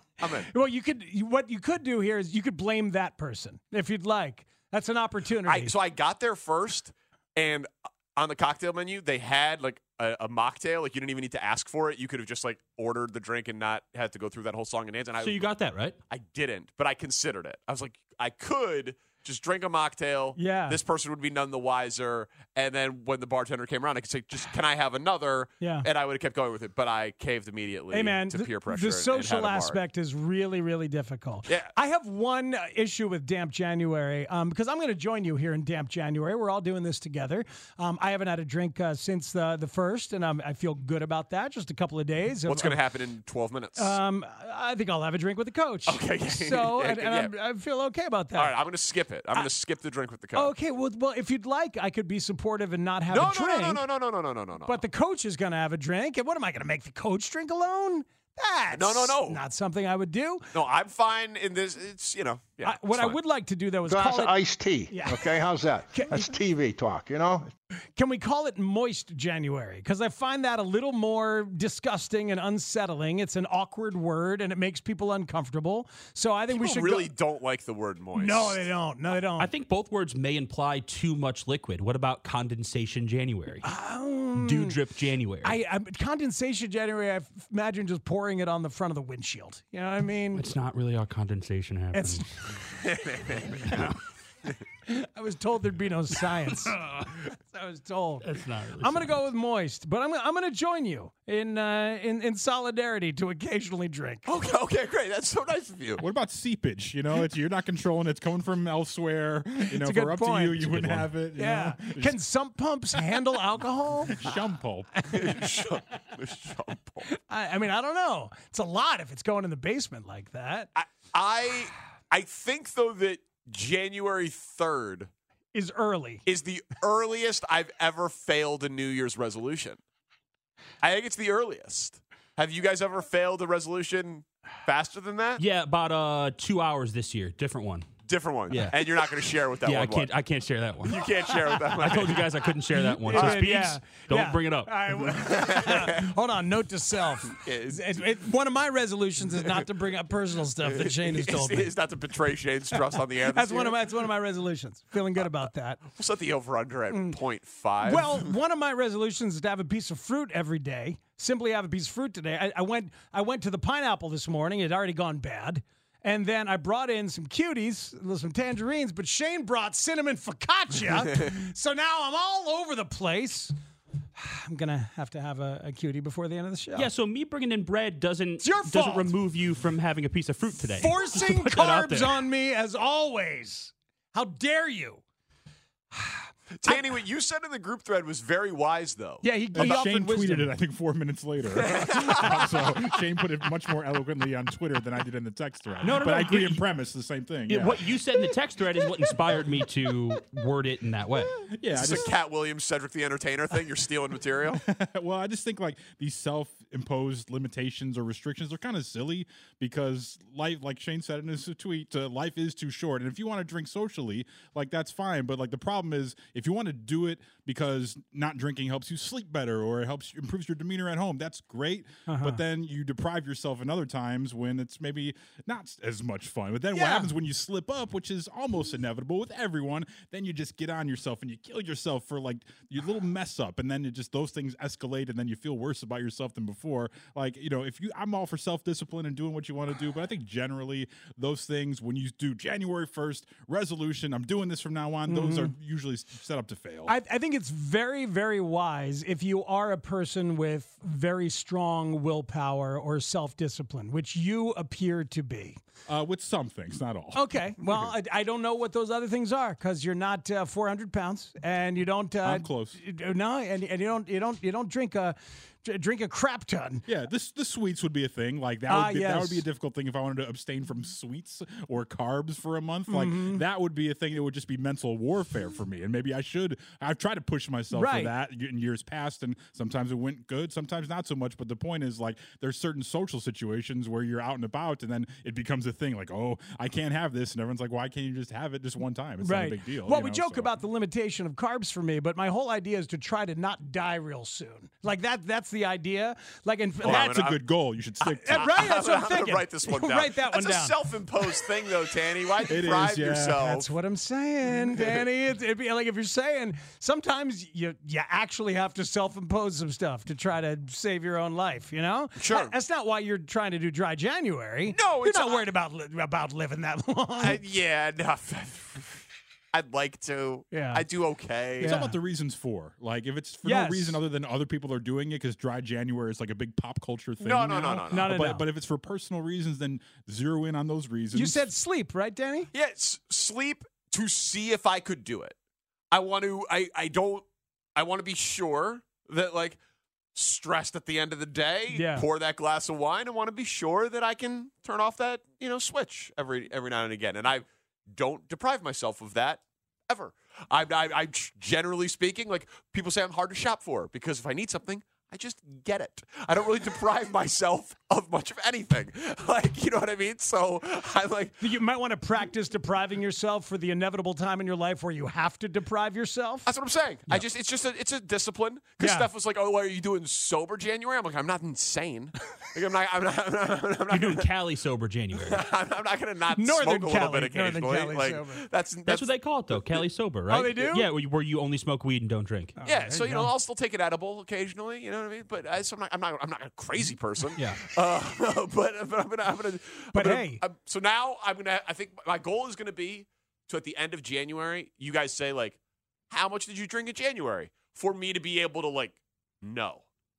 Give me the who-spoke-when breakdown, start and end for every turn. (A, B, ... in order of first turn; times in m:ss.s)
0:00.2-0:00.5 A
0:00.5-0:05.7 B
0:05.4-0:15.5 A
0:15.2-0:16.0 C
0:16.1-0:29.8 A
0:20.4-0:20.8 B
0:25.6-0:25.9 B
0:27.9-0:42.8 B
0:31.5-0:31.7 A
0:42.4-0:44.0 A
0:43.8-0:48.6 B
0:45.9-0:47.3 A
0:48.4-0:50.5 A
0:50.3-0:53.8 B
0:53.1-0:54.8 A
0:54.6-1:00.5 B
0:58.7-0:59.4 A
1:00.5-1:03.2 A
1:02.6-1:05.3 B
1:03.9-1:07.5 D
1:05.9-1:06.4 B
1:08.0-1:17.1 B
1:16.5-1:18.6 A
1:18.2-1:19.5 B
1:19.4-1:23.6 C
1:23.6-1:24.8 B
1:24.4-1:25.6 C
1:25.4-1:30.5 B
1:30.4-1:32.7 C
1:31.9-1:32.3 B
1:32.9-1:33.7 A
1:33.6-1:34.0 C
1:34.9-1:36.8 B
1:37.5-1:38.3 B
1:38.2-1:39.1 C
1:38.8-1:44.3 B
1:44.2-1:46.0 A
1:46.0-1:52.2 E
1:49.6-1:54.3 B
1:50.6-1:50.9 C
1:54.1-1:55.1 E
1:55.0-1:55.4 B
1:55.1-1:57.1 A
1:57.1-2:00.7 B
2:00.8-2:05.1 A
2:05.5-2:06.2 B
2:06.3-2:09.8 A
2:10.8-2:15.4 A
2:15.4-2:17.9 C
2:18.0-2:20.1 A
2:18.5-2:18.8 C
2:19.6-2:21.1 C
2:20.8-2:22.5 A
2:21.7-2:24.7 C
2:22.8-2:31.7 B
2:23.1-2:23.5 A
2:25.1-2:26.1 A
2:27.3-2:28.1 A
2:29.4-2:29.6 A
2:30.6-2:33.8 A
2:32.8-2:35.8 B
2:35.2-2:38.3 A
2:36.9-2:37.2 B
2:37.8-2:53.5 B
2:54.2-2:56.9 B
2:56.8-3:02.2 C
2:58.4-2:59.1 B
3:00.8-3:05.0 B
3:05.9-3:06.8 B
3:06.6-3:09.8 A
3:09.2-3:10.5 B
3:09.5-3:17.9 E
3:11.5-3:12.8 A
3:15.8-3:16.6 C
3:17.5-3:21.4 C
3:21.5-3:22.1 E
3:21.7-3:24.6 A
3:24.6-4:06.9 E
3:42.1-3:42.4 B
3:46.7-3:47.1 B
4:05.1-4:05.5 B
4:06.9-4:15.6 B
4:15.9-4:17.9 E
4:17.1-4:26.8 B
4:22.2-4:22.8 E
4:26.9-4:50.6 E
4:28.7-4:29.4 B
4:32.9-4:33.4 B
4:37.7-4:38.1 B
4:49.2-4:57.4 B
4:56.8-4:57.4 A
4:56.8-4:58.5 E
4:58.0-5:03.7 A
4:58.2-5:00.8 B
5:02.5-5:03.4 E
5:03.3-5:17.4 B
5:12.2-5:12.5 A
5:14.7-5:15.5 A
5:17.2-5:21.8 A
5:20.5-5:20.8 B
5:21.6-5:22.0 B
5:21.6-5:31.5 E
5:23.4-5:24.0 B
5:27.2-5:28.2 A
5:27.8-5:28.4 B
5:31.1-5:32.5 B
5:32.5-5:35.4 A
5:35.9-5:37.2 A
5:37.8-5:39.6 A
5:40.1-6:01.4 A
5:41.7-5:42.1 B
6:01.4-6:06.5 B
6:06.4-6:14.3 A
6:08.8-6:09.1 B
6:13.9-6:15.4 C
6:15.1-6:19.8 A
6:16.4-6:18.5 B
6:18.9-6:22.5 C
6:20.3-6:20.9 B
6:22.6-6:23.3 B
6:22.6-6:35.6 A
6:27.4-6:27.6 C
6:29.9-6:30.4 B
6:36.1-6:39.9 A